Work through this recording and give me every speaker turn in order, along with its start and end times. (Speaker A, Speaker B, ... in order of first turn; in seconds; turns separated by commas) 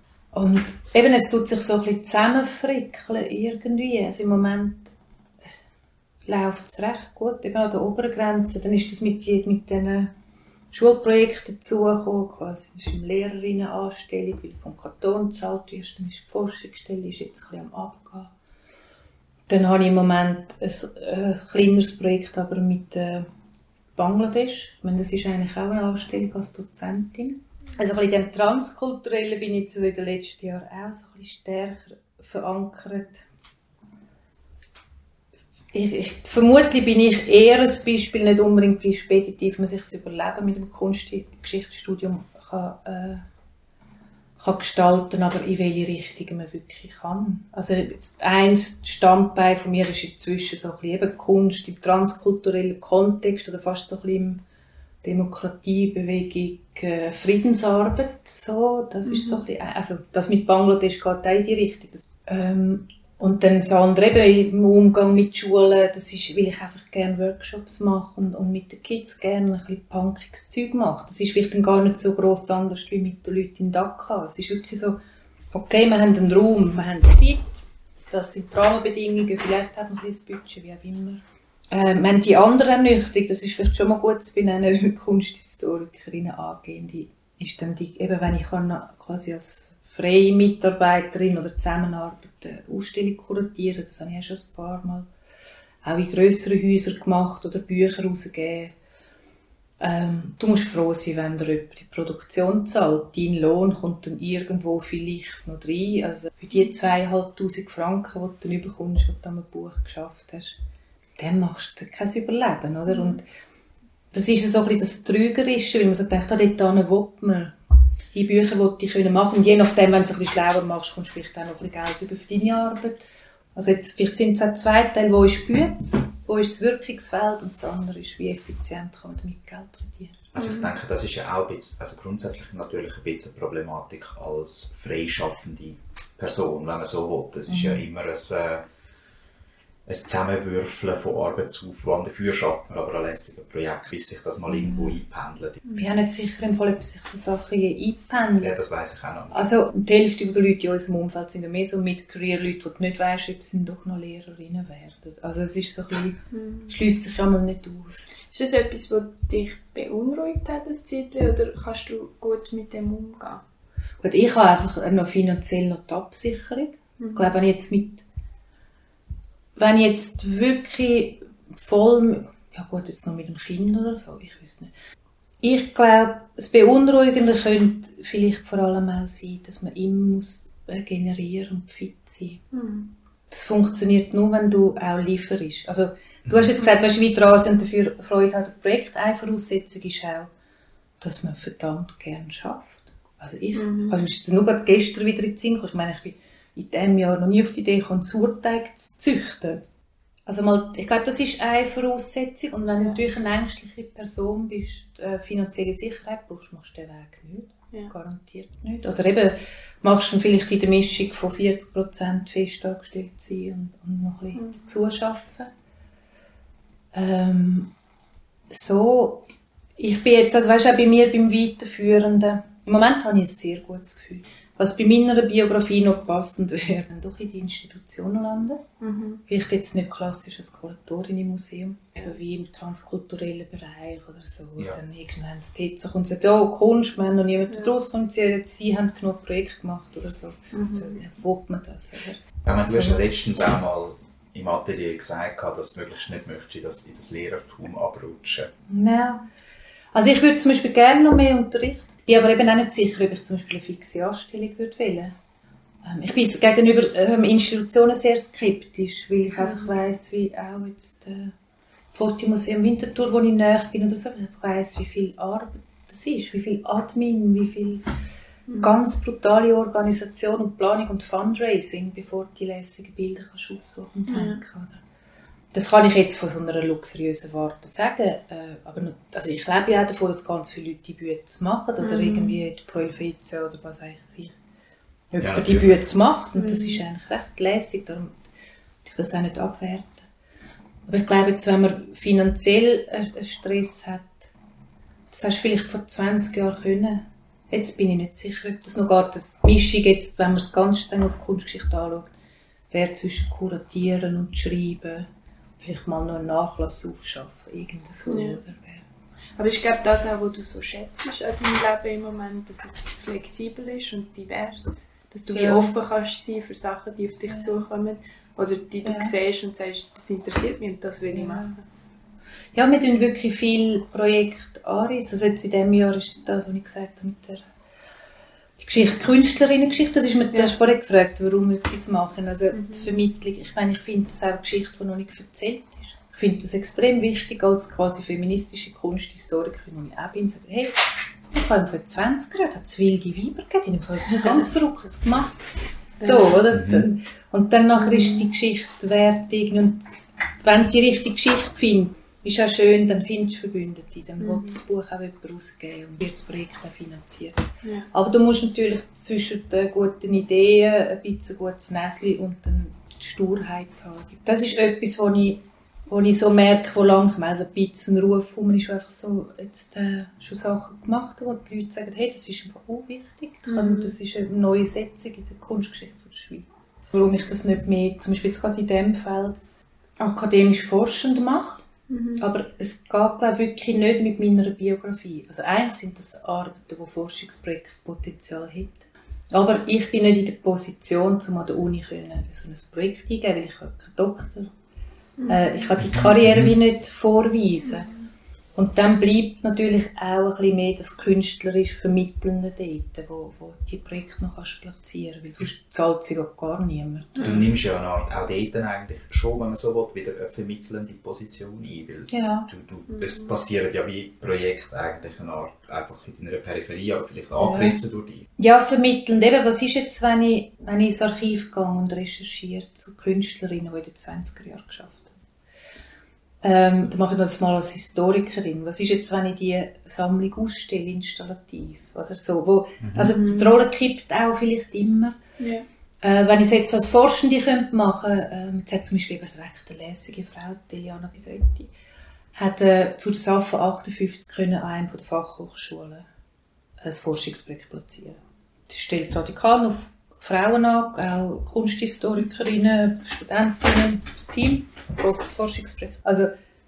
Speaker A: 0.3-4.9, Speaker A: 6.2-10.1, Speaker A: 10.7-18.3, Speaker A: 19.5-23.3, Speaker A: 23.9-33.2, Speaker A: 35.7-43.2, Speaker A: 44.4-54.4, Speaker A: 55.0-75.0, Speaker B: 59.0-59.4, Speaker A: 75.5-95.1, Speaker A: 95.8-98.7, Speaker A: 99.8-110.5, Speaker A: 111.2-113.2, Speaker B: 112.9-113.2, Speaker A: 114.1-117.5, Speaker A: 118.1-130.2, Speaker C: 130.3-138.6, Speaker B: 130.4-130.7, Speaker A: 137.5-137.8, Speaker C: 139.8-145.6, Speaker A: 144.5-144.9, Speaker A: 145.7-148.6, Speaker C: 148.4-149.5, Speaker A: 149.3-158.1, Speaker B: 156.3-156.7, Speaker B: 158.3-163.4, Speaker A: 164.0-168.0, Speaker B: 167.0-167.3, Speaker A: 169.6-174.7, Speaker A: 175.4-182.4, Speaker B: 182.5-182.9, Speaker A: 183.3-190.3, Speaker A: 191.0-199.6, Speaker B: 193.5-193.9, Speaker A: 200.3-215.5, Speaker B: 202.8-203.0, Speaker A: 216.9-217.7, Speaker A: 218.5-219.3, Speaker A: 219.8-228.6, Speaker B: 228.8-229.2, Speaker A: 229.3-243.1, Speaker B: 240.5-241.0, Speaker C: 242.4-248.5, Speaker A: 248.7-249.2, Speaker A: 249.9-255.1, Speaker A: 255.8-261.3, Speaker B: 259.4-259.7, Speaker A: 261.9-267.8, Speaker A: 268.6-274.8, Speaker B: 274.1-274.4, Speaker A: 275.5-284.4, Speaker B: 281.8-282.4, Speaker A: 285.1-288.2, Speaker C: 285.2-285.8, Speaker B: 286.3-286.8, Speaker A: 288.8-290.1, Speaker A: 290.9-294.3, Speaker A: 295.1-302.1, Speaker A: 302.7-305.1, Speaker A: 305.6-308.8, Speaker B: 308.1-308.4, Speaker B: 309.4-321.6, Speaker A: 315.3-315.7, Speaker A: 318.8-319.1, Speaker A: 321.1-321.5, Speaker A: 322.5-327.4, Speaker A: 328.6-340.8, Speaker B: 332.5-332.9, Speaker A: 341.3-345.4, Speaker A: 346.0-349.8, Speaker B: 346.0-346.4, Speaker C: 346.5-346.9, Speaker B: 347.8-348.3, Speaker A: 350.4-357.4, Speaker B: 354.2-354.6, Speaker B: 357.6-357.9, Speaker A: 357.9-379.4, Speaker B: 373.5-373.9, Speaker A: 380.0-381.6, Speaker B: 381.9-382.2, Speaker A: 382.2-394.5, Speaker B: 395.2-395.6, Speaker A: 395.3-397.9, Speaker C: 395.8-396.5, Speaker A: 398.5-407.4, Speaker C: 407.2-418.3, Speaker A: 412.1-412.5, Speaker B: 412.9-413.3, Speaker A: 417.4-417.8, Speaker A: 418.4-425.1, Speaker A: 426.4-435.2, Speaker C: 432.8-433.1, Speaker B: 433.0-433.6, Speaker B: 435.4-435.6, Speaker A: 436.0-441.7, Speaker A: 442.3-446.1, Speaker A: 446.8-456.3